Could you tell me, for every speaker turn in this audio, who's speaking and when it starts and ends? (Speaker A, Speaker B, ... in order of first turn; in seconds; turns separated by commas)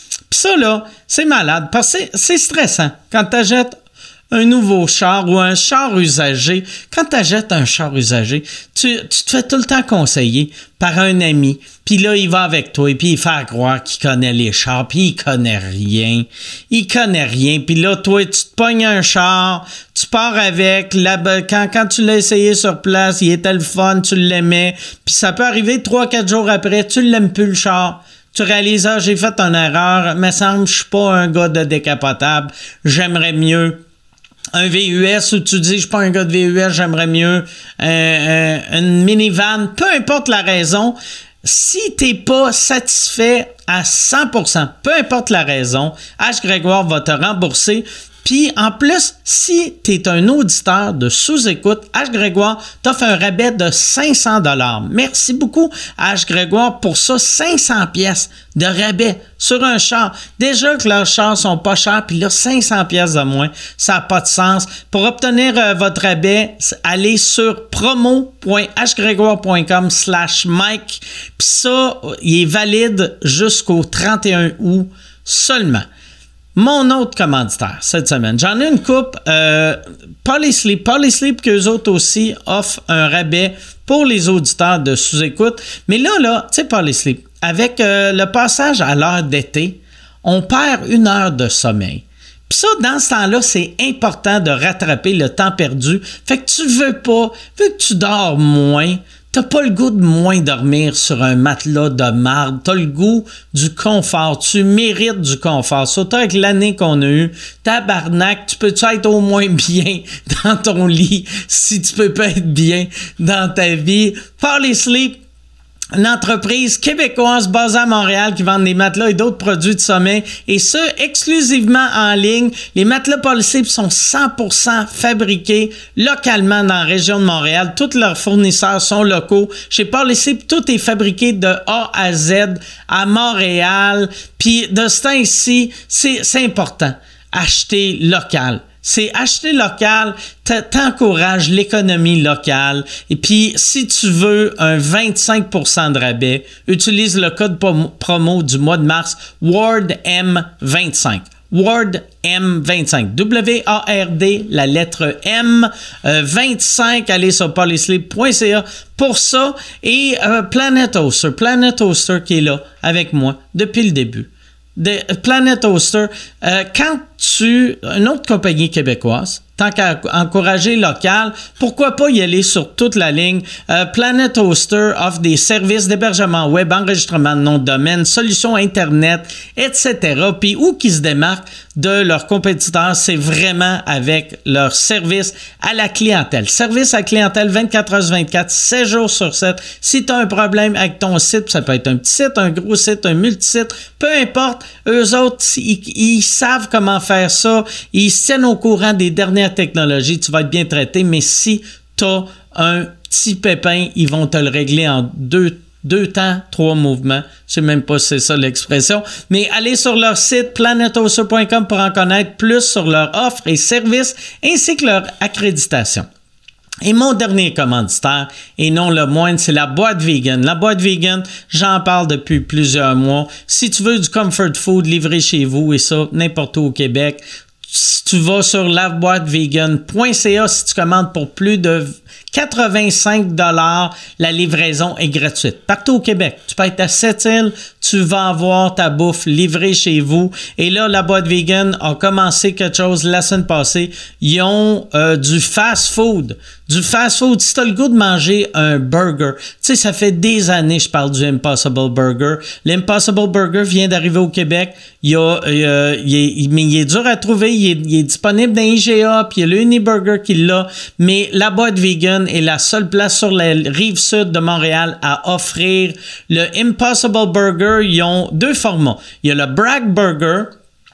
Speaker A: 0.3-3.8, Speaker A: 4.3-33.8, Speaker A: 34.5-75.9, Speaker A: 76.5-115.2, Speaker A: 115.9-216.1, Speaker A: 216.8-270.5